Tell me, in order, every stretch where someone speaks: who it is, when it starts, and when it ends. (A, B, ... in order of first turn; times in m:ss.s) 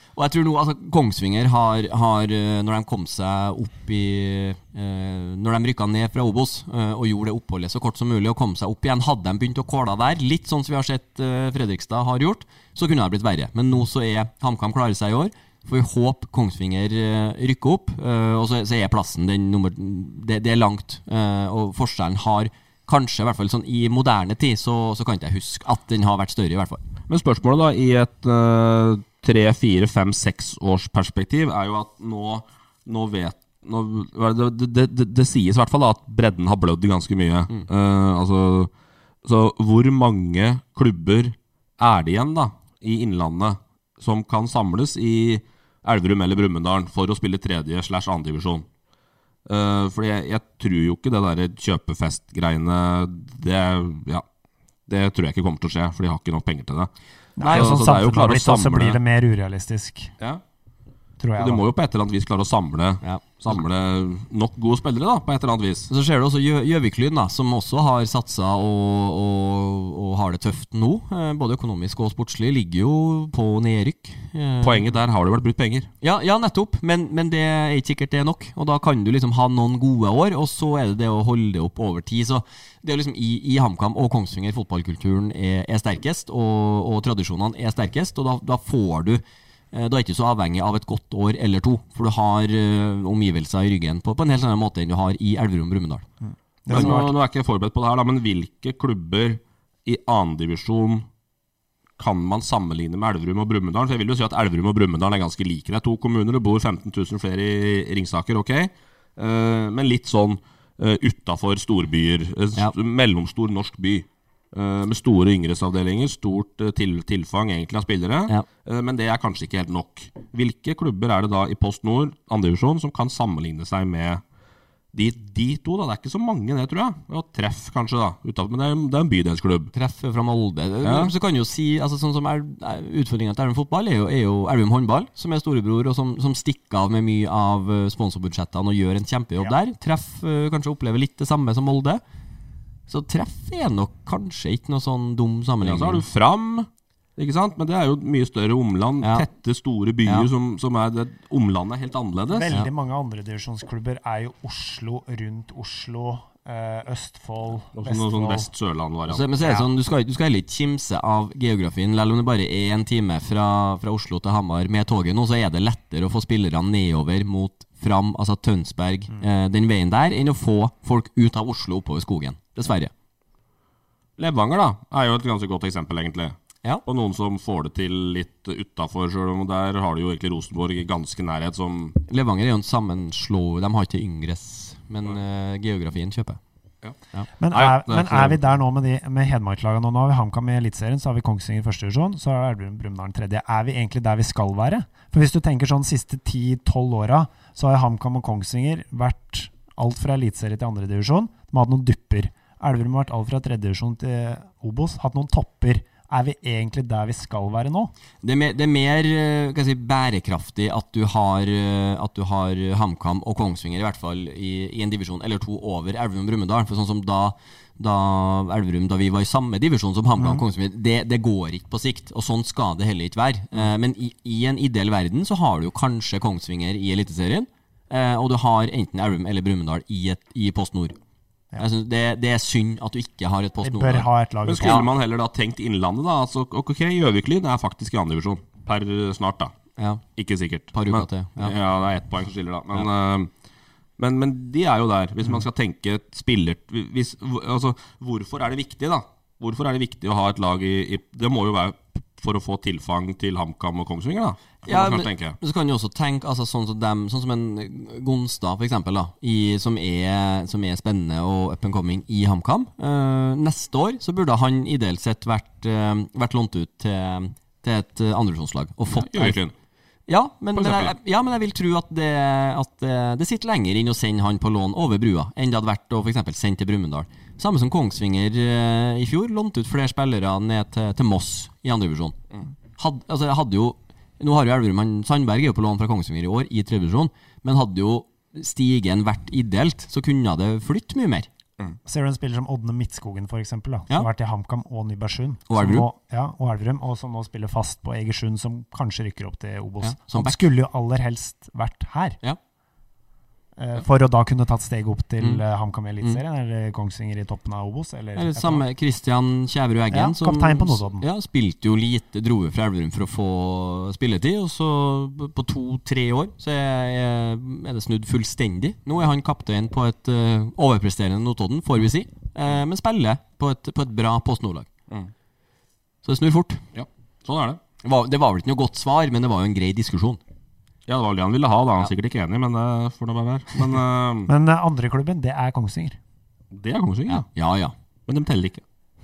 0:00.2-0:26.8 A
0:27.1-0:38.7 B
0:39.2-0:48.7 B
0:49.5-0:54.2 B
0:54.9-0:56.9 B
0:57.4-1:00.1 C
0:57.4-0:57.8 A
0:57.4-0:59.0 B
1:01.2-1:01.6 C
1:01.4-1:05.9 B
1:05.9-1:14.8 A
1:14.6-1:15.9 B
1:16.0-1:36.0 A
1:36.2-1:37.1 C
1:36.7-1:41.1 B
1:36.7-1:37.0 A
1:42.0-2:04.2 B
2:04.9-2:09.7 B
2:09.7-2:22.0 A
2:10.8-2:11.1 B
2:22.9-2:26.0 A
2:25.6-2:32.5 B
2:29.0-2:29.3 A
2:32.3-2:38.5 C
2:37.7-2:39.3 B
2:39.1-2:52.9 A
2:54.2-2:56.4 B
2:56.9-3:02.0 B
3:02.1-3:06.4 A
3:07.4-3:27.9 C
3:07.5-3:08.4 B
3:28.2-3:51.0 A
3:40.2-3:40.4 C
3:51.6-3:54.9 A
3:53.6-3:54.9 C
3:54.5-3:59.5 B
3:59.8-4:00.0 A
4:00.2-4:03.3 B
4:00.7-4:01.6 A
4:04.0-4:15.4 B
4:14.7-4:29.4 A
4:28.9-4:29.5 B
4:30.1-4:42.2 A
4:30.6-4:30.9 B
4:42.8-4:51.3 A
4:51.9-5:02.2 C
4:55.5-4:55.9 A
4:59.8-5:00.4 A
5:03.6-5:08.6 C
5:08.2-5:24.7 A
5:09.9-5:11.1 C
5:26.0-5:26.6 A
5:26.7-5:27.6 B
5:27.8-5:30.2 A
5:30.9-5:34.3 B
5:34.3-5:36.0 C
5:36.5-5:37.2 B
5:37.1-5:37.7 A
5:38.1-5:38.6 B